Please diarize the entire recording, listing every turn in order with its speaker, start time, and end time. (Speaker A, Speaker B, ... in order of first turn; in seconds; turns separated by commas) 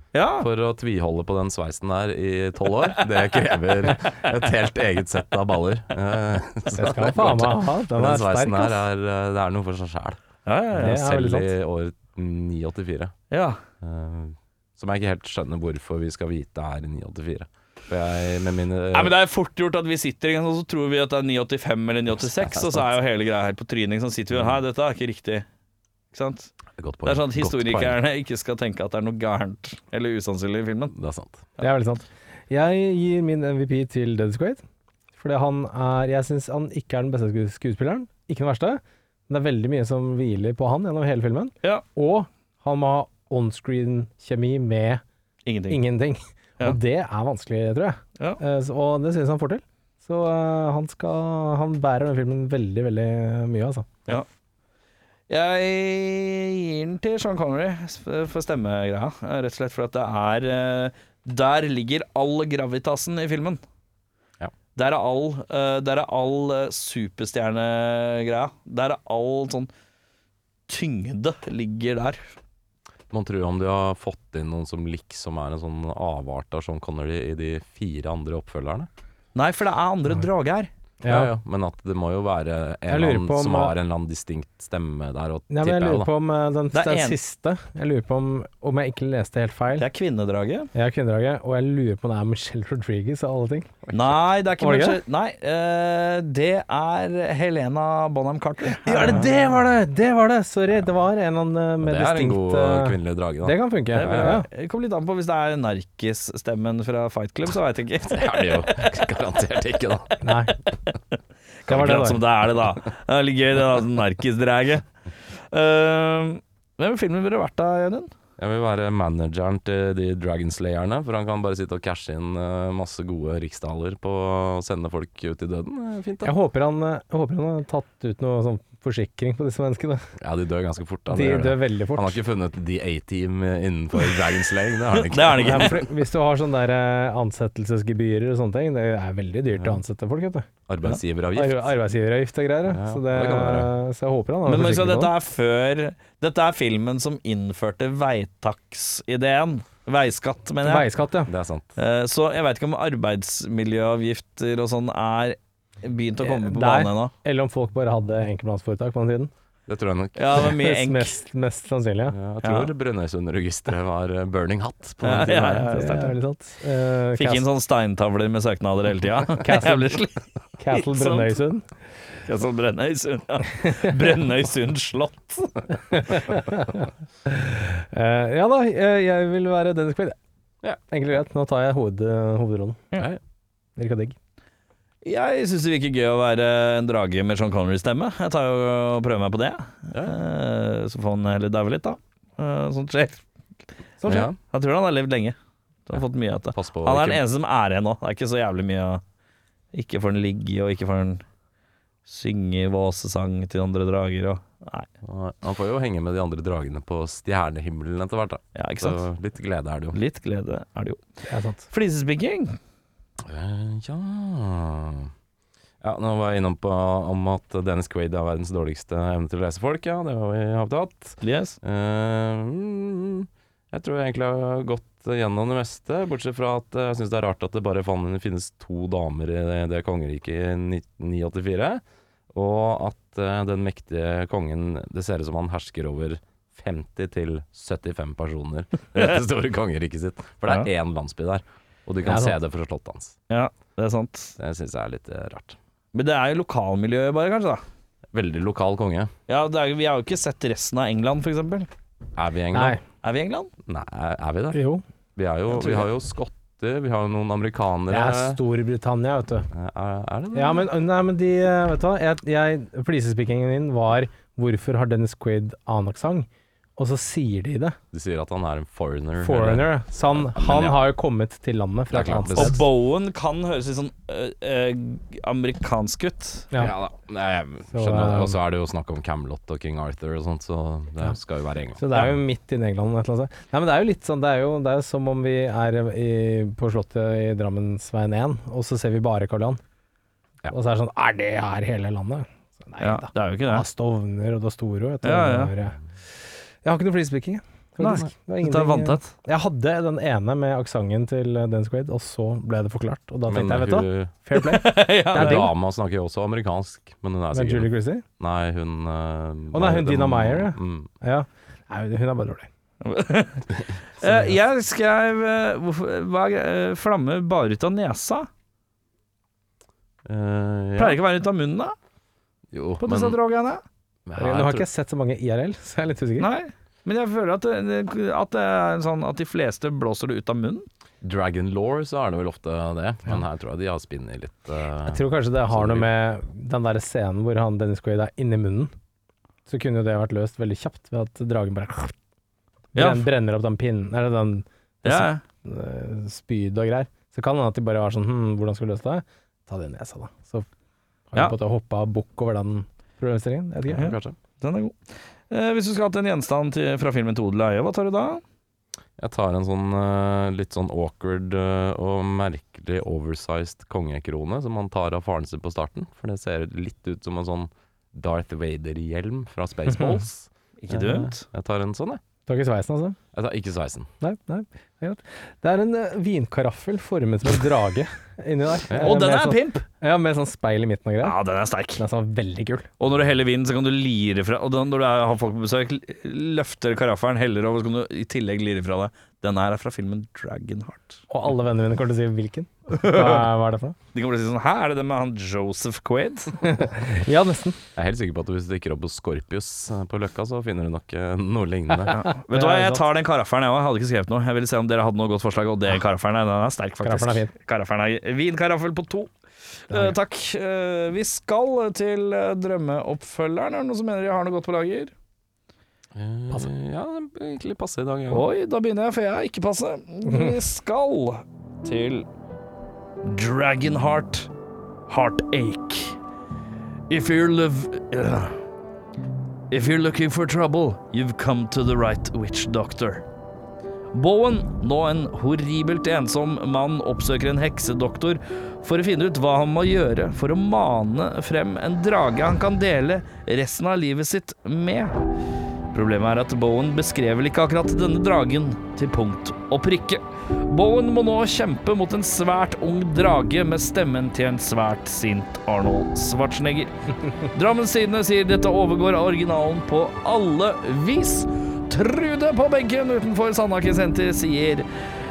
Speaker A: 0.1-0.5, Speaker B: 0.4-10.2, Speaker C: 6.7-8.8, Speaker A: 10.5-11.0, Speaker B: 10.7-13.1, Speaker C: 10.8-11.5, Speaker A: 13.3-13.6, Speaker B: 13.8-19.1, Speaker A: 18.9-25.5, Speaker B: 22.3-22.9, Speaker A: 26.1-26.5, Speaker B: 26.8-28.0, Speaker A: 27.1-30.9, Speaker B: 30.9-31.5, Speaker C: 31.6-34.6, Speaker C: 35.2-45.0, Speaker A: 45.5-45.8, Speaker C: 45.7-54.0, Speaker A: 55.3-63.6, Speaker A: 64.8-69.7, Speaker A: 70.7-72.2, Speaker B: 73.1-78.9, Speaker A: 79.3-80.7, Speaker C: 81.0-81.3, Speaker B: 81.1-86.1, Speaker C: 82.9-83.7, Speaker C: 85.5-89.9, Speaker A: 86.7-87.2, Speaker A: 89.8-90.7, Speaker C: 90.7-93.8, Speaker A: 93.9-99.3, Speaker C: 94.6-95.0, Speaker C: 98.8-104.5, Speaker B: 101.8-104.3, Speaker A: 104.0-108.9, Speaker B: 108.1-110.2, Speaker C: 110.2-110.5, Speaker A: 110.9-118.1, Speaker C: 111.7-112.2, Speaker B: 118.4-126.3, Speaker C: 126.2-130.1, Speaker B: 130.2-135.9, Speaker C: 131.1-132.2, Speaker A: 134.9-135.8, Speaker C: 135.4-140.5, Speaker B: 140.7-141.7, Speaker C: 141.3-145.1, Speaker B: 142.7-143.7, Speaker A: 144.5-150.9, Speaker C: 150.6-151.3, Speaker B: 151.3-151.8, Speaker A: 151.8-157.1, Speaker C: 156.2-159.3, Speaker B: 159.7-160.5, Speaker A: 160.2-161.1, Speaker C: 160.4-162.2, Speaker B: 162.1-165.8, Speaker A: 162.4-162.7, Speaker A: 165.0-166.1, Speaker C: 165.5-167.5, Speaker A: 167.2-171.4, Speaker C: 169.4-170.0, Speaker C: 170.6-171.6, Speaker A: 172.3-175.7, Speaker C: 175.9-180.2, Speaker C: 180.9-182.8, Speaker C: 183.8-184.2, Speaker A: 185.0-193.2, Speaker C: 194.0-194.3, Speaker B: 194.1-194.4, Speaker A: 194.1-199.0, Speaker B: 196.5-197.2, Speaker A: 199.7-201.2, Speaker A: 202.1-204.9, Speaker B: 205.0-210.0, Speaker A: 208.6-209.0, Speaker A: 209.9-211.0, Speaker C: 211.3-211.7, Speaker A: 211.7-212.6, Speaker B: 213.2-215.1, Speaker B: 215.8-243.2, Speaker A: 221.2-221.6, Speaker C: 242.0-242.4, Speaker A: 243.3-244.4, Speaker B: 244.4-245.6, Speaker A: 245.9-247.6, Speaker B: 248.1-249.1, Speaker A: 249.3-251.7, Speaker B: 252.2-252.8, Speaker C: 252.5-252.8, Speaker A: 253.0-253.5, Speaker B: 253.7-254.6, Speaker C: 254.5-254.8, Speaker B: 255.2-258.4, Speaker A: 255.5-255.8, Speaker C: 257.9-259.5, Speaker B: 259.5-260.7, Speaker C: 260.3-267.8, Speaker B: 267.9-270.9, Speaker C: 269.2-272.6, Speaker B: 271.9-272.6, Speaker A: 272.3-276.5, Speaker B: 276.6-282.1, Speaker C: 277.7-278.4, Speaker C: 281.8-289.6, Speaker C: 290.5-295.8, Speaker A: 292.8-293.6, Speaker A: 295.0-295.5, Speaker C: 296.6-305.5, Speaker A: 297.8-299.1, Speaker B: 303.3-304.1, Speaker A: 304.4-305.5, Speaker B: 305.1-310.9, Speaker C: 307.3-308.0, Speaker C: 309.5-312.5, Speaker A: 312.8-313.5, Speaker A: 314.0-318.3, Speaker B: 320.1-321.0, Speaker A: 320.8-321.8, Speaker B: 322.5-323.2, Speaker A: 322.8-323.6, Speaker B: 324.1-324.7, Speaker C: 324.2-326.3, Speaker A: 326.2-330.7, Speaker B: 331.0-335.9, Speaker C: 334.9-338.7, Speaker C: 339.5-341.9, Speaker C: 342.8-350.5, Speaker A: 342.8-343.1, Speaker A: 344.9-345.2, Speaker C: 351.1-353.9, Speaker B: 353.7-354.2, Speaker A: 353.7-354.8, Speaker A: 355.3-358.2, Speaker B: 359.0-372.0, Speaker A: 370.6-371.3, Speaker C: 372.3-373.0, Speaker B: 373.1-373.9, Speaker C: 374.0-381.2, Speaker A: 378.8-379.6, Speaker A: 381.0-381.8, Speaker C: 381.8-382.7, Speaker A: 382.8-391.0, Speaker C: 391.1-393.8, Speaker A: 392.7-393.3, Speaker A: 393.9-396.6, Speaker C: 396.4-397.6, Speaker B: 397.8-402.0, Speaker A: 401.9-409.1, Speaker C: 402.3-402.9, Speaker C: 406.8-407.3, Speaker A: 409.7-414.9, Speaker C: 409.7-410.0, Speaker B: 415.9-418.2, Speaker A: 418.1-422.1, Speaker A: 423.0-424.3, Speaker A: 424.9-426.0, Speaker A: 426.9-428.4, Speaker A: 429.5-433.1, Speaker A: 433.9-445.0, Speaker A: 445.7-456.7, Speaker A: 457.3-464.7